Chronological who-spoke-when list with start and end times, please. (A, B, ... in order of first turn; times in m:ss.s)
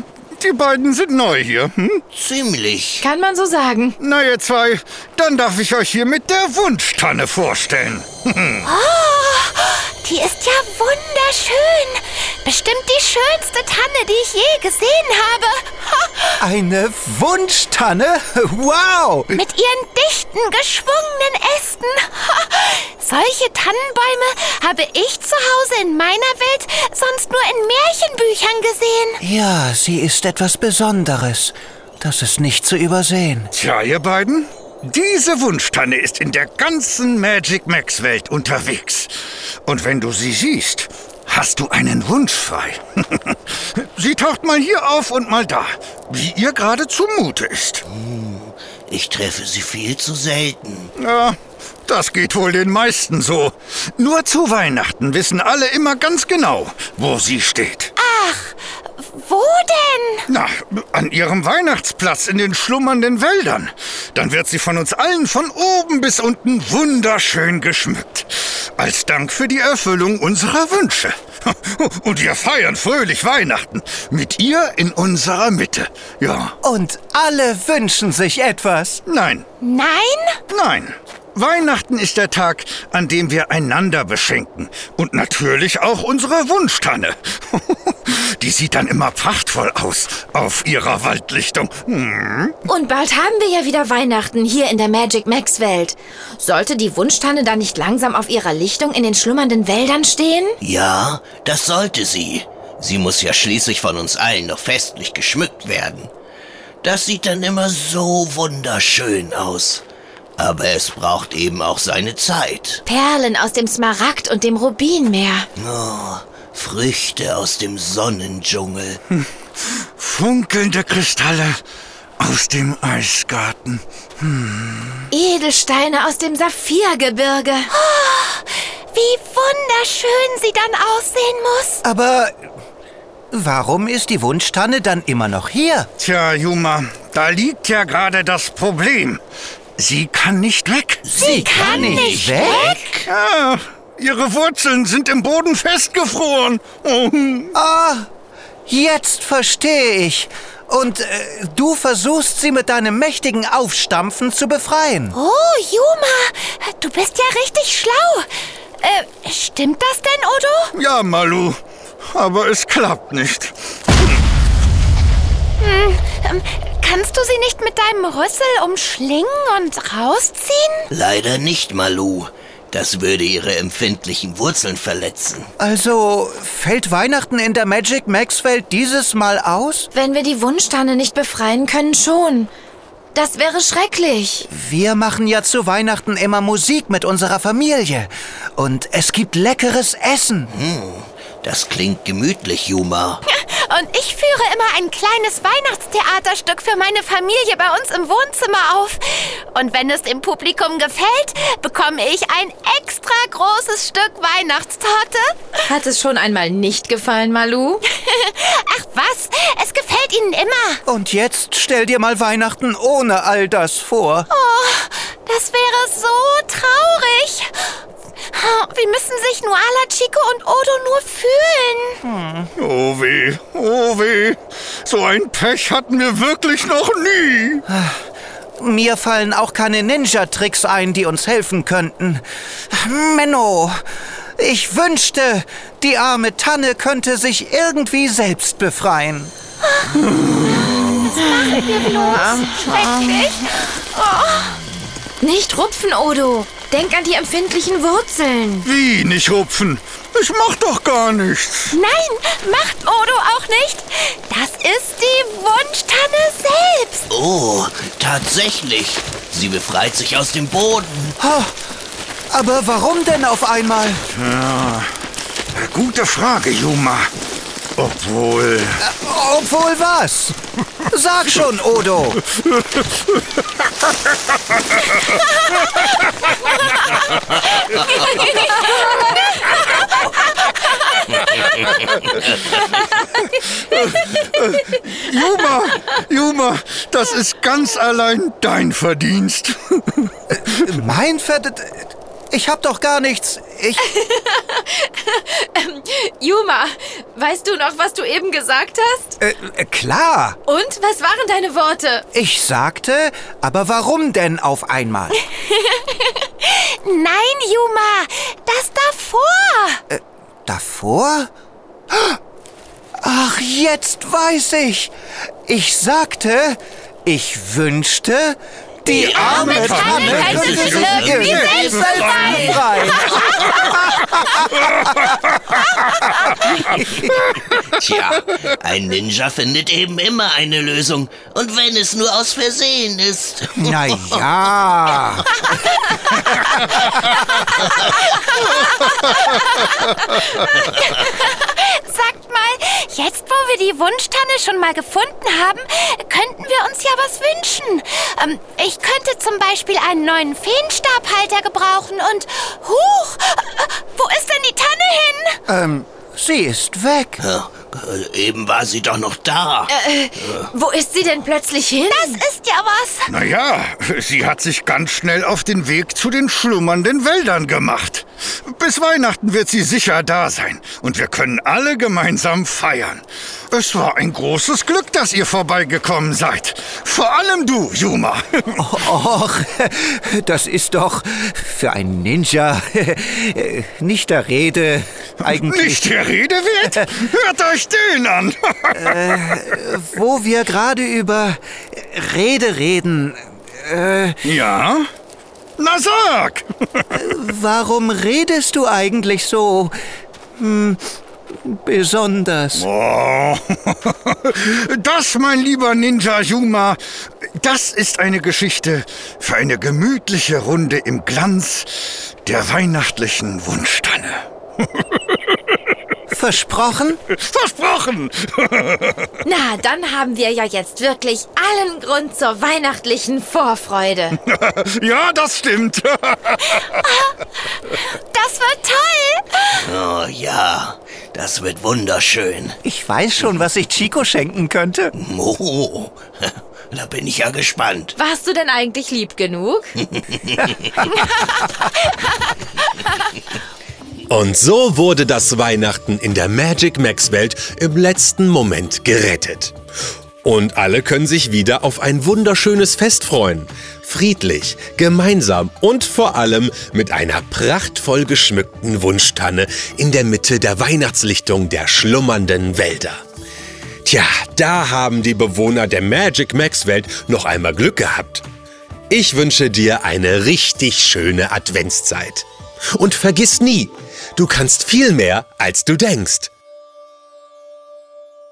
0:00.4-0:02.0 A
0:02.1-0:03.1 B
0:03.0-0:04.0 C
0:04.0-0:08.7 A
0:08.7-0:16.4 D
0:16.4-0:19.4 E
0:19.3-0:29.2 D
0:29.2-0:33.5 E
0:33.5-0:47.8 A
0:47.9-0:50.9 B
0:51.0-0:57.9 A
0:58.0-1:00.3 D
1:00.3-1:16.6 A
1:16.6-1:19.0 E
1:19.1-1:19.5 A
1:19.6-1:20.4 D
1:20.5-1:32.6 A
1:32.6-1:40.6 C
1:40.6-1:46.1 B
1:46.8-1:49.8 B
1:50.4-1:52.8 B
1:52.9-1:55.5 C
1:55.6-1:59.0 B
1:59.2-2:01.6 A
2:02.2-2:05.1 A
2:05.1-2:07.7 C
2:07.7-2:11.8 D
2:11.8-2:12.4 E
2:13.3-2:15.9 E
2:16.0-2:19.2 A
2:19.8-2:21.1 A
2:21.0-2:23.1 B
2:21.2-2:22.9 D
2:21.2-2:22.8 E
2:23.1-2:27.5 A
2:27.6-2:28.1 E
2:28.7-2:35.2 E
2:35.1-2:38.3 D
2:38.8-2:40.7 D
2:40.7-2:41.6 A
2:42.1-2:43.6 A
2:45.6-2:50.9 D
2:50.9-2:55.5 B
2:55.6-2:59.9 E
2:59.9-3:02.5 C
3:03.2-3:04.5 C
3:04.5-3:10.5 E
3:10.5-3:13.2 B
3:13.3-3:25.6 D
3:25.7-3:27.8 C
3:27.9-3:30.8 D
3:30.9-3:34.3 E
3:34.3-3:37.8 D
3:38.3-3:42.0 D
3:42.0-3:42.5 E
3:42.6-3:47.6 A
3:47.7-3:48.0 E
3:48.6-3:53.8 E
3:54.4-3:59.3 E
3:59.9-4:01.0 A
4:01.1-4:03.1 C
4:01.5-4:04.5 D
4:05.2-4:08.7 C
4:08.6-4:11.8 A
4:11.7-4:17.1 D
4:17.1-4:21.2 B
4:21.2-4:21.6 E
4:22.3-4:24.0 E
4:24.1-4:24.9 A
4:25.5-4:27.1 A
4:27.8-4:28.8 A
4:28.8-4:30.4 E
4:30.9-4:32.2 E
4:37.9-4:39.3 C
4:43.7-4:44.0 A
4:44.9-4:50.1 A
4:50.6-4:53.8 E
4:53.8-4:59.1 C
4:59.2-5:00.4 E
5:00.5-5:02.0 C
5:02.1-5:05.2 E
5:06.4-5:09.8 D
5:09.9-5:11.3 E
5:11.9-5:12.2 E
5:13.0-5:14.9 E
5:15.5-5:24.7 E
5:18.9-5:22.8 B
5:18.9-5:20.1 D
5:19.2-5:23.7 A
5:19.6-5:22.4 C
5:27.5-5:34.2 B
5:33.6-5:35.5 E
5:37.7-5:37.9 B
5:38.5-5:55.4 D
5:55.5-5:57.2 E
5:57.2-6:00.5 B
5:59.7-6:02.2 C
6:01.9-6:03.1 D
6:03.1-6:18.6 A
6:18.6-6:25.8 E
6:25.2-6:29.3 A
6:28.8-6:34.2 E
6:34.2-6:34.9 A
6:35.6-6:36.8 A
6:36.9-6:39.7 E
6:40.4-6:40.8 E
6:41.4-6:42.7 E
6:42.5-6:46.8 A
6:47.4-6:55.0 A
6:56.1-6:57.0 E
6:57.1-6:59.1 A
6:59.2-7:04.2 C
7:04.2-7:06.8 A
7:06.6-7:09.6 D
7:09.6-7:12.6 B
7:12.6-7:14.9 E
7:15.0-7:18.0 B
7:18.0-7:19.8 C
7:19.9-7:20.9 B
7:20.8-7:22.1 C
7:24.1-7:29.6 F
7:30.2-7:43.0 F
7:43.8-7:48.2 F
7:48.9-7:56.3 F